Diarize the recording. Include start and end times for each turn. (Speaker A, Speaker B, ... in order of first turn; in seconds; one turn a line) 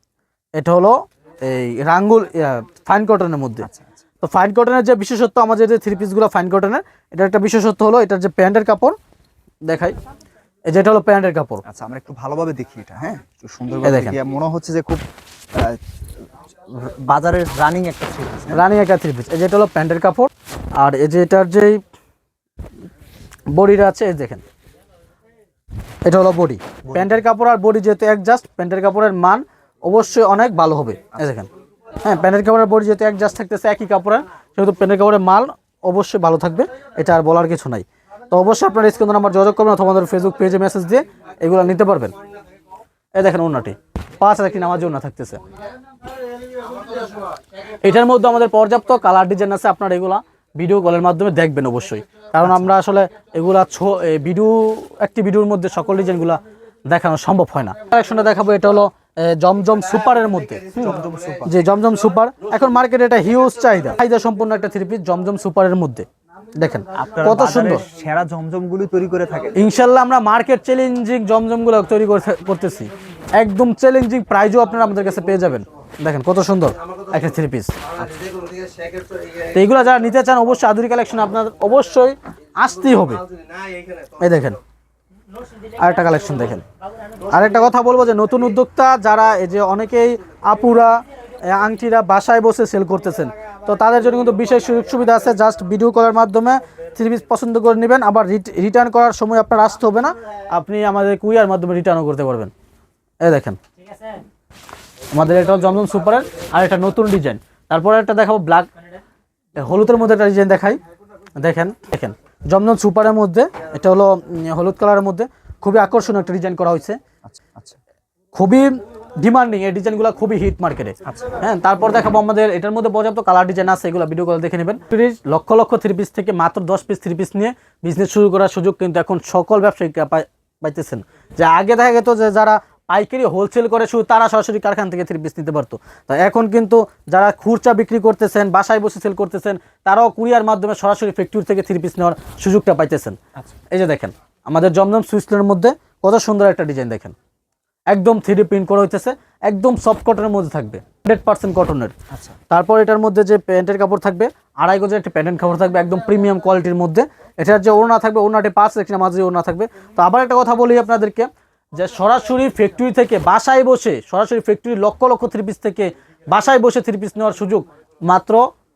Speaker A: 0.6-3.7
Speaker B: 3.6-3.9
Speaker A: 4.2-8.9
Speaker A: 9.7-9.9
Speaker A: 10.7-11.6
Speaker B: 11.7-15.8
Speaker A: 13.8-14.2
Speaker B: 16.7-18.6
Speaker A: 18.5-21.8
Speaker A: 23.5-24.4
Speaker A: 26.1-31.5
Speaker B: 26.9-27.2
Speaker A: 32.0-42.1
Speaker A: 43.1-45.4
Speaker A: 47.8-60.9
Speaker B: 52.4-52.7
Speaker B: 60.8-61.5
Speaker A: 61.5-66.1
Speaker A: 66.6-67.8
Speaker B: 67.0-69.6
Speaker A: 69.5-78.1
Speaker A: 79.5-83.2
Speaker A: 84.2-84.6
Speaker A: 85.8-86.7
Speaker A: 87.3-102.5
Speaker A: 103.2-103.6
Speaker A: 105.1-108.7
Speaker A: 109.6-110.8
Speaker A: 111.4-117.0
Speaker B: 117.2-117.8
Speaker A: 118.3-143.2
Speaker B: 121.0-121.4
Speaker A: 143.7-147.2
Speaker A: 147.9-151.9
Speaker B: 152.1-152.4
Speaker A: 152.5-168.4